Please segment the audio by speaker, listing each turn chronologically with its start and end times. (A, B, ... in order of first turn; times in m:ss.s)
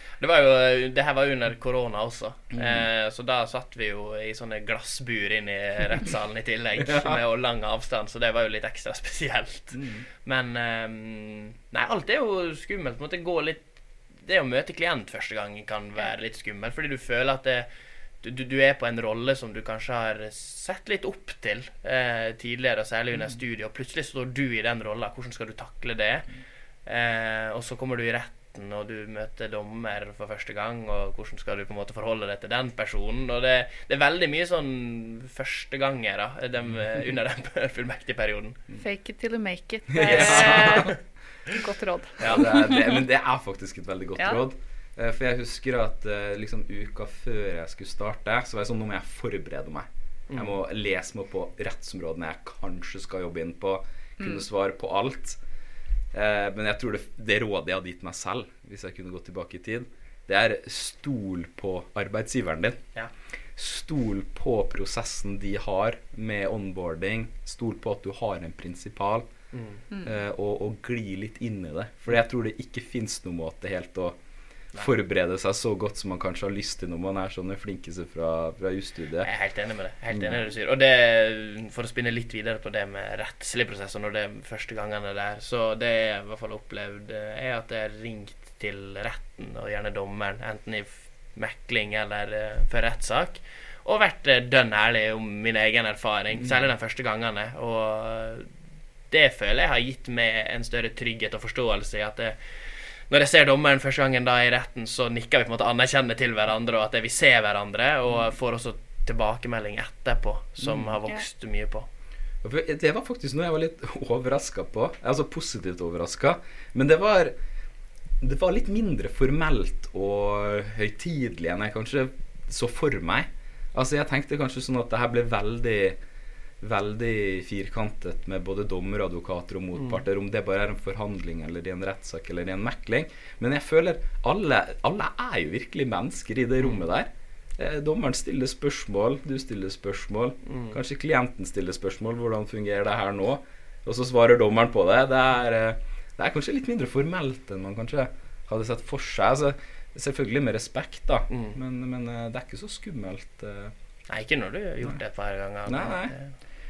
0:00.2-0:17.7 A
0:02.5-0:02.9 B
0:09.7-0:10.1 B
0:18.2-0:38.6 A
0:38.7-0:43.0 C
0:39.9-0:40.9 B
0:40.0-0:41.0 A
0:42.2-0:55.4 B
0:50.3-0:50.6 A
0:54.2-0:54.4 C
0:56.1-1:02.9 B
1:03.6-1:09.3 B
1:09.5-1:09.8 A
1:10.0-1:14.2 B
1:14.7-1:19.3 B
1:19.2-1:38.5 A
1:20.1-1:20.4 B
1:36.4-1:36.7 B
1:39.1-1:42.4 A
1:43.1-1:51.9 A
1:50.6-1:50.9 B
1:52.4-1:57.3 B
1:58.2-2:06.0 B
2:06.6-2:33.7 B
2:20.5-2:20.8 A
2:31.3-2:31.6 A
2:34.1-2:36.4 A
2:35.6-2:36.1 B